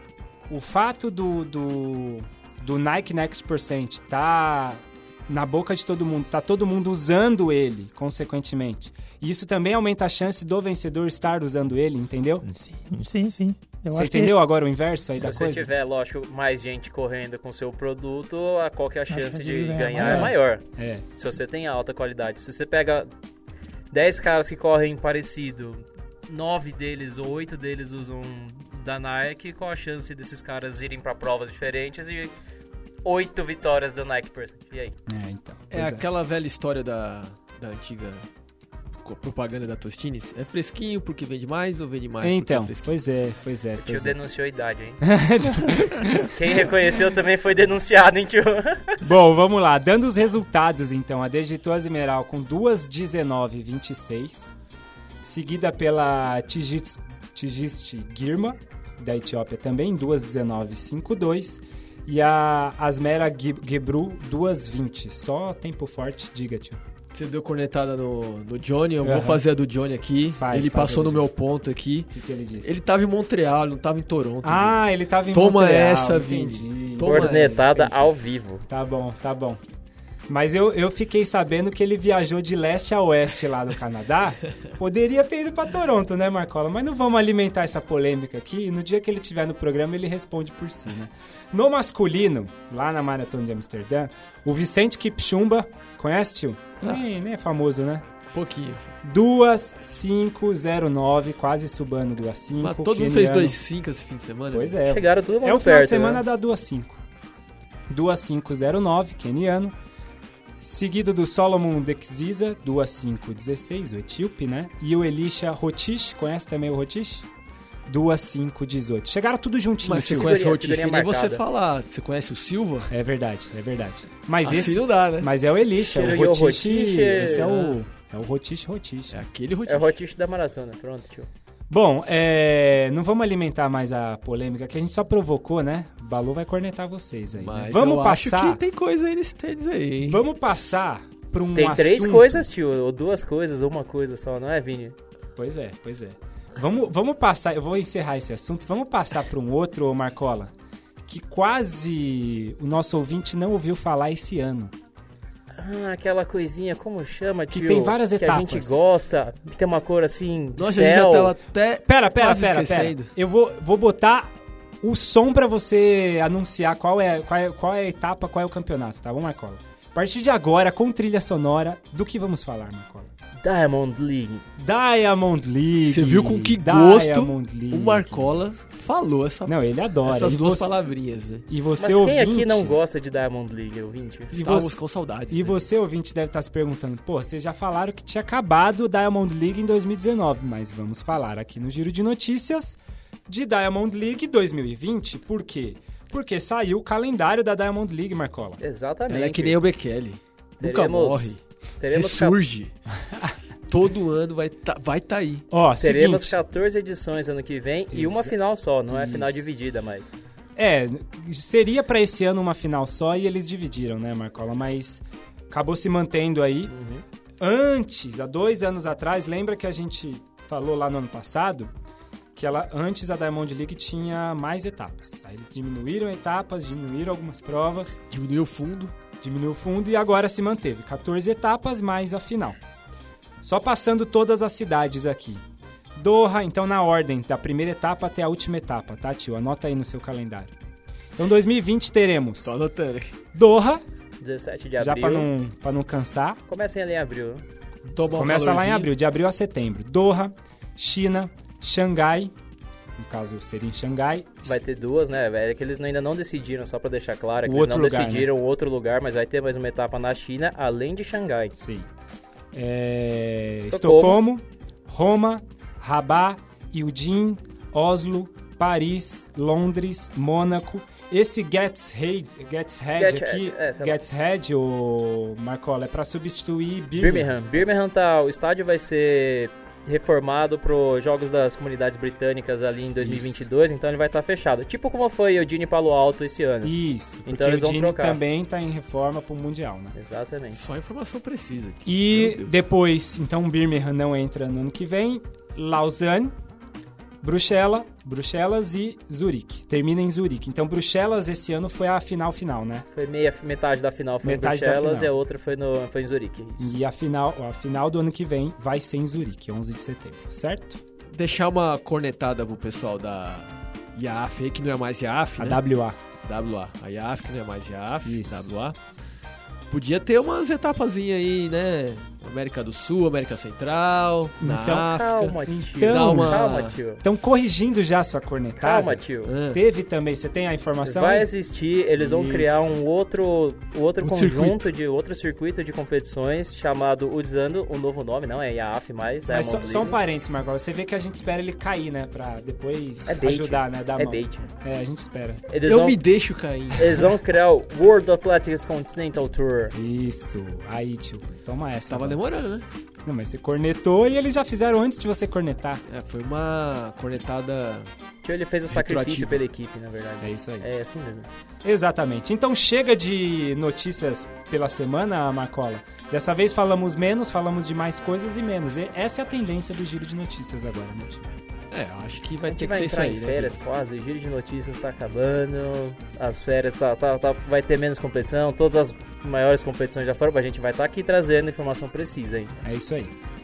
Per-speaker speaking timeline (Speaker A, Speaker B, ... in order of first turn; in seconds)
Speaker A: 0.5-12.4, 13.9-15.7, 20.0-21.0, 35.1-36.0, 42.2-44.2, 45.0-46.0, 49.0-54.5, 55.2-66.8, 69.0-69.4, 70.4-71.3, 72.1-72.7, 74.4-78.1, 78.7-79.6, 80.3-98.0, 99.0-103.6, 104.5-107.0, 107.9-109.7, 110.6-117.3, 117.9-120.4, 122.9-129.2, 131.7-138.6, 140.0-142.5, 145.4-150.5, 151.1-154.7, 157.5-158.8, 161.9-173.1, 174.6-178.4, 179.5-180.8, 181.5-182.8, 184.3-184.8, 185.3-198.6, 205.5-206.4, 207.9-208.3, 208.9-209.4, 210.6-216.7, 217.4-221.7, 222.3-228.0, 229.2-232.6, 233.4-235.4, 236.0-240.5, 241.2-242.6, 243.3-243.8, 244.8-246.4, 248.1-252.3, 253.0-254.6, 257.4-258.3, 261.6-261.9, 262.5-277.7, 283.0-283.4, 286.6-289.9, 291.9-296.3, 297.2-302.9, 304.2-305.1, 306.6-310.8, 315.4-316.0, 318.1-318.5, 324.4-326.4, 327.0-331.3, 339.3-345.5, 349.7-352.2, 353.1-355.8, 358.7-359.4, 360.2-360.7, 361.6-371.2, 382.6-383.1
Speaker B: 12.5-14.3, 19.1-20.3
Speaker C: 15.2-23.1, 23.9-32.3, 33.0-35.0, 43.8-45.0, 46.3-49.0, 77.0-78.7, 104.8-106.3, 120.2-121.4, 125.8-127.8, 129.7-131.3, 141.5-145.0, 155.6-161.4, 173.4-174.4, 181.8-184.3, 198.6-199.6, 200.6-202.4, 205.8-210.1, 216.7-217.0, 244.2-245.3, 246.5-247.4, 254.4-261.6, 263.6-264.2, 273.0-274.0, 277.0-288.2, 289.9-290.6, 302.9-306.7, 324.9-327.0, 328.6-329.3, 330.8-340.0, 343.1-344.5, 345.5-346.0, 346.8-349.7, 358.2-361.3, 372.5-382.6
Speaker D: 35.7-38.2, 39.0-42.9, 67.1-77.7, 98.3-98.9, 102.6-104.8, 119.8-122.9, 124.4-125.3, 127.2-127.6, 129.1-130.0, 137.3-140.2, 160.6-163.1, 175.9-181.5, 184.3-185.6, 199.1-202.7, 203.7-205.5, 228.1-228.9, 242.4-243.2, 247.8-248.9, 290.5-292.6, 311.1-315.6, 316.2-318.8, 319.7-326.8, 329.2-329.6, 332.0-332.7, 334.0-334.7, 345.6-347.1, 351.9-352.7, 355.9-357.9, 371.7-373.6